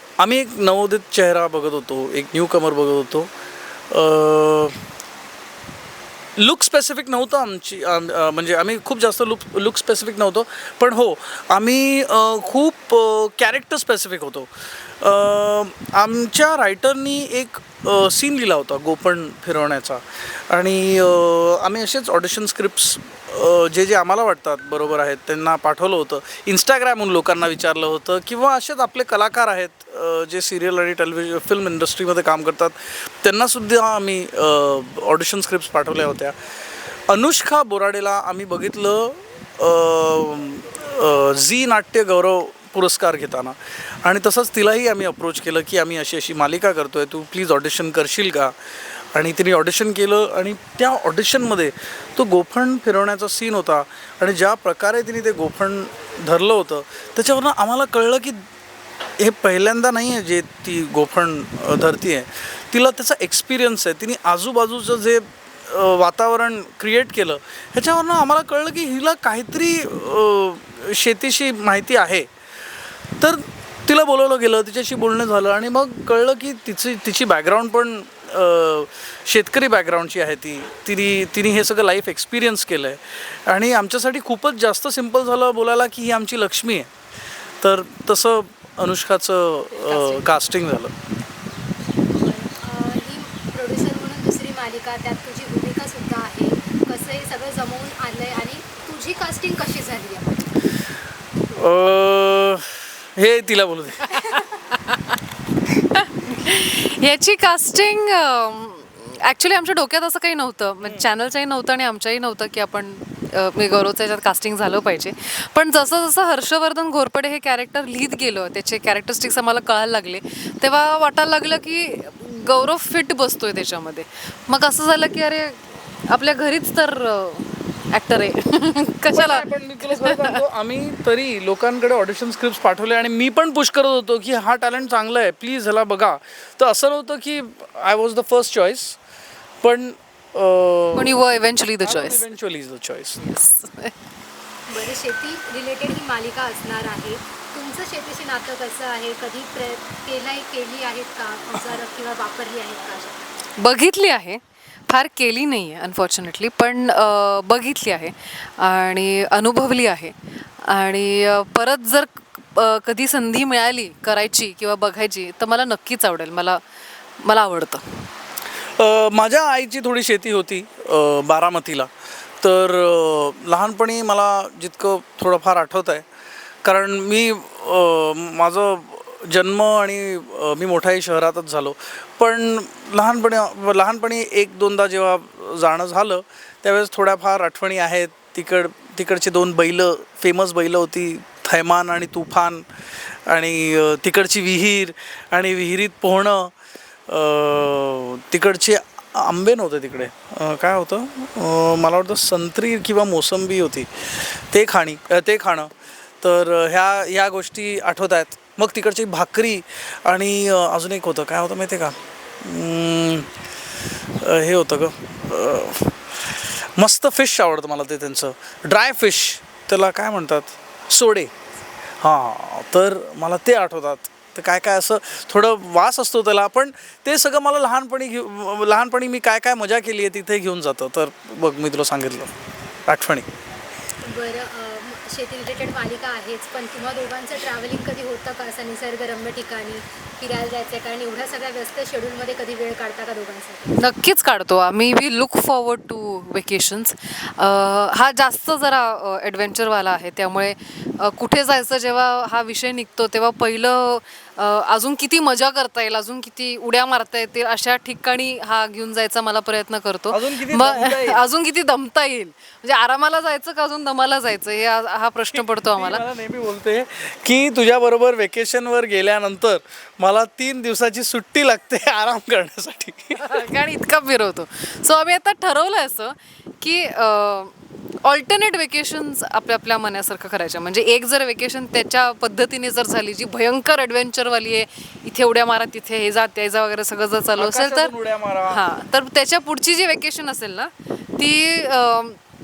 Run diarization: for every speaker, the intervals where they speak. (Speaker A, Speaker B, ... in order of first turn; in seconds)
Speaker A: 0.2-3.3, 3.9-4.8, 6.4-14.5, 15.0-36.4, 37.1-48.5, 49.1-58.4, 59.2-72.3, 73.2-86.9, 87.6-90.9, 101.5-104.1, 110.8-111.1, 129.1-139.0, 139.6-141.2, 141.8-143.2, 168.8-176.1, 176.6-196.5, 197.1-213.3, 214.2-221.3, 222.0-232.3, 232.8-233.3, 260.1-261.2, 265.3-273.4, 287.4-288.6
Speaker B: 89.7-90.3, 104.1-105.0, 105.9-130.4, 140.9-142.2, 143.2-143.9, 153.6-166.6, 167.2-168.1, 243.8-266.0, 273.2-287.9, 288.5-292.2
Speaker C: 92.1-100.5, 144.7-153.3, 234.0-243.8